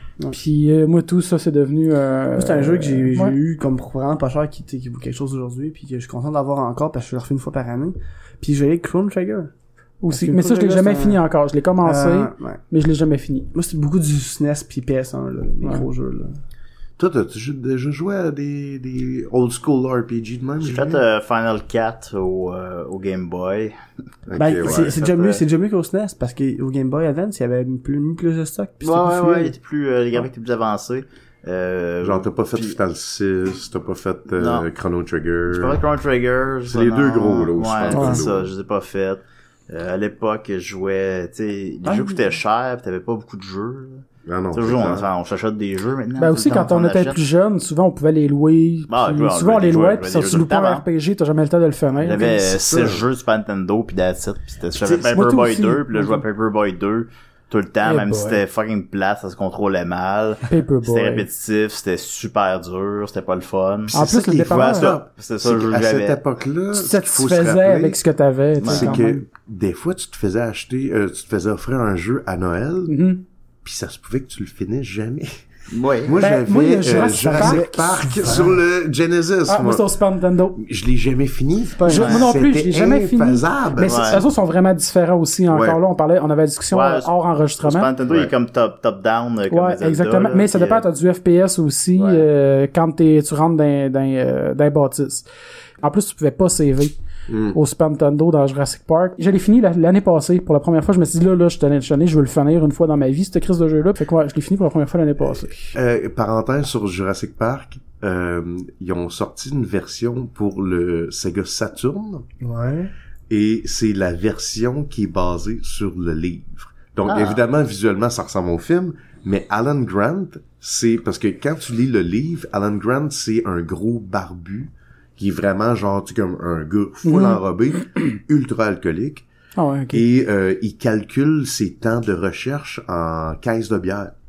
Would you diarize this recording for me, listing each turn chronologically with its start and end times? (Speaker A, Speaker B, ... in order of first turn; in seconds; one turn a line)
Speaker A: 0.3-3.4
Speaker B: 2.4-9.5
Speaker A: 10.0-13.5
Speaker B: 10.1-11.2
Speaker B: 11.8-12.6
Speaker B: 13.5-16.4
Speaker C: 17.0-21.0
Speaker D: 20.6-23.7
Speaker C: 24.3-24.9
Speaker B: 24.4-29.5
Speaker D: 24.6-25.4
Speaker D: 28.8-32.8
Speaker C: 32.0-35.8
Speaker D: 34.4-34.6
Speaker D: 35.5-47.2
Speaker C: 36.7-38.5
Speaker B: 37.9-38.2
Speaker A: 41.9-42.3
Speaker C: 44.2-45.1
Speaker A: 46.2-52.4
Speaker D: 48.9-50.8
Speaker D: 52.0-66.2
Speaker C: 52.1-53.0
Speaker A: 54.8-56.2
Speaker A: 57.8-58.4
Speaker A: 60.5-61.2
Speaker C: 63.9-68.0
Speaker A: 63.9-65.0
Speaker A: 66.7-69.2
Speaker D: 68.6-69.0
Speaker C: 68.6-73.0
Speaker A: 72.9-73.2
Speaker C: 73.6-75.4
Speaker D: 75.7-76.1
Speaker C: 76.0-79.8
Speaker A: 76.2-77.9
Speaker B: 77.2-78.6
Speaker A: 79.5-80.6
Speaker C: 80.5-84.2
Speaker B: 81.8-82.1
Speaker A: 81.9-87.9
Speaker D: 81.9-82.3
Speaker D: 83.8-84.2
Speaker C: 85.5-85.8
Speaker D: 86.7-90.8
Speaker A: 89.5-95.2
Speaker A: 95.8-96.9
Speaker C: 97.3-97.6
Speaker A: 97.5-105.6
Speaker C: 105.7-112.2
Speaker B: 112.4-112.9
Speaker C: 113.3-129.2
Speaker D: 117.0-117.4
Speaker A: 127.0-127.4
Speaker A: 129.6-130.0
Speaker C: 129.9-134.1